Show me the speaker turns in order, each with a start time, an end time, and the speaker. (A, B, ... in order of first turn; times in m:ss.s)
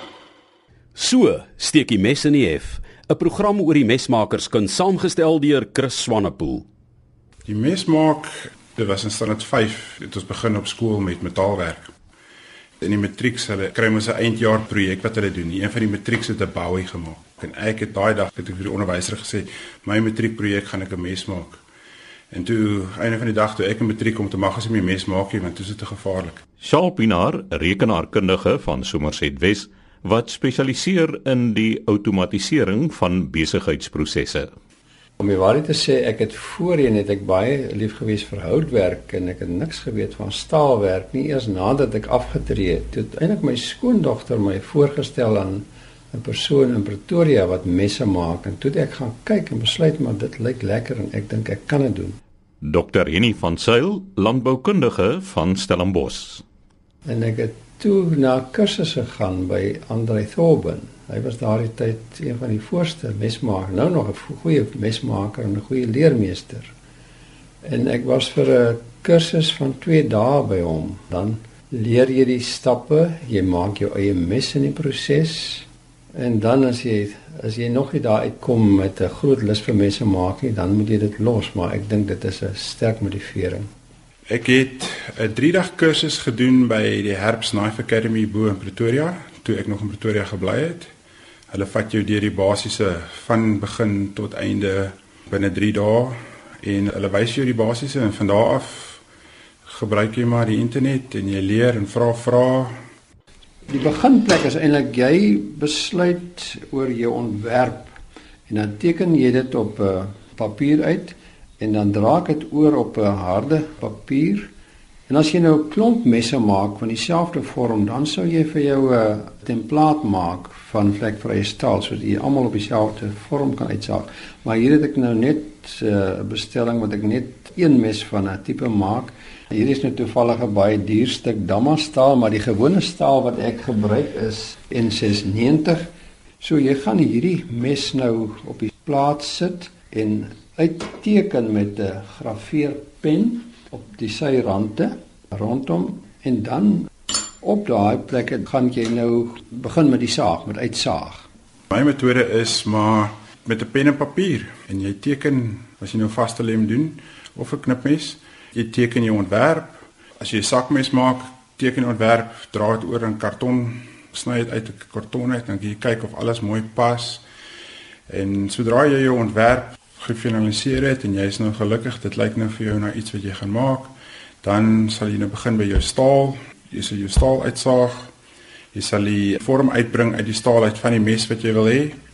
0:00.9-0:06.6 A
0:07.4-0:11.9 B
0:12.8-0:21.6 B
0:22.3-0:26.4 B
0:26.6-0:34.5 C
0:35.2-0:52.2 D
0:52.6-0:56.4 C
0:57.0-1:06.7 D
1:07.6-1:23.7 D
1:24.3-1:30.9 B
1:31.5-1:39.0 B
1:39.6-1:42.8 B
1:43.7-1:47.9 D
1:48.5-1:54.5 D
1:55.1-2:15.9 D
2:16.4-2:26.9 D
2:27.4-2:31.3 D
2:31.7-2:47.2 B
2:48.1-2:58.1 B
2:58.7-3:02.0 B